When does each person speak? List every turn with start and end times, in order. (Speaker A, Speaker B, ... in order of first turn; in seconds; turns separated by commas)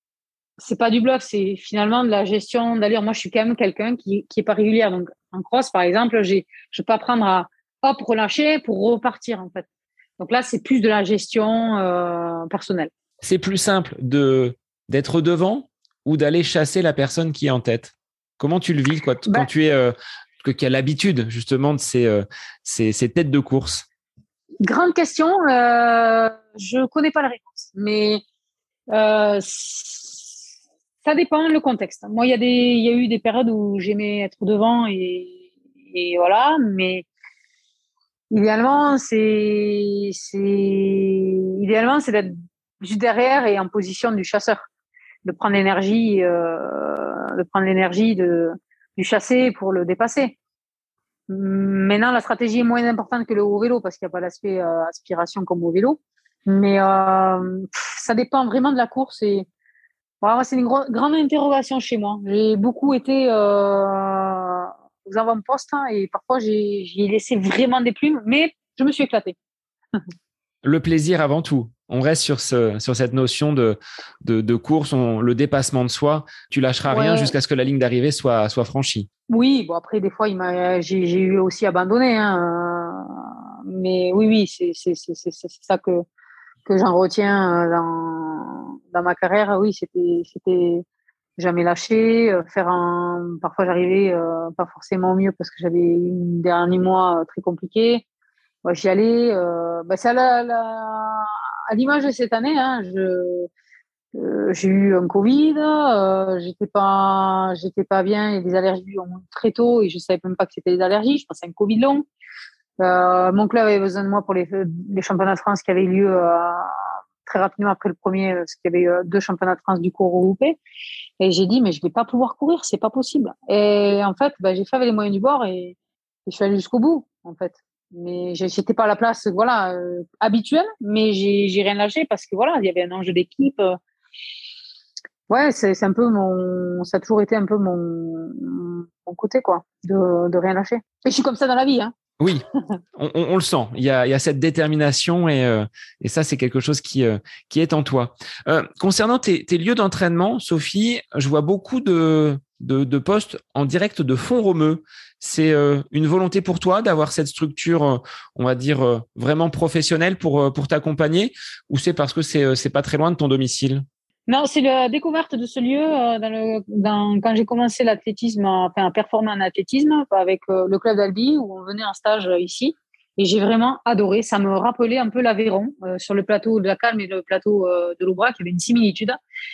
Speaker A: 0.6-9.7, Speaker A: 10.2-12.9, Speaker B: 13.2-23.9, Speaker A: 24.6-28.2, Speaker A: 28.9-30.5, Speaker A: 31.0-37.0, Speaker A: 38.3-44.6, Speaker A: 45.2-50.4, Speaker A: 51.3-59.5, Speaker A: 60.2-69.3, Speaker B: 70.6-79.1, Speaker A: 76.9-77.3, Speaker A: 79.3-86.0, Speaker A: 86.7-90.8, Speaker A: 91.4-98.0, Speaker A: 98.6-103.5, Speaker A: 104.1-112.0, Speaker A: 112.8-120.6, Speaker A: 121.2-133.8, Speaker A: 135.3-141.9, Speaker B: 142.2-142.4, Speaker B: 142.9-163.8, Speaker A: 164.3-179.2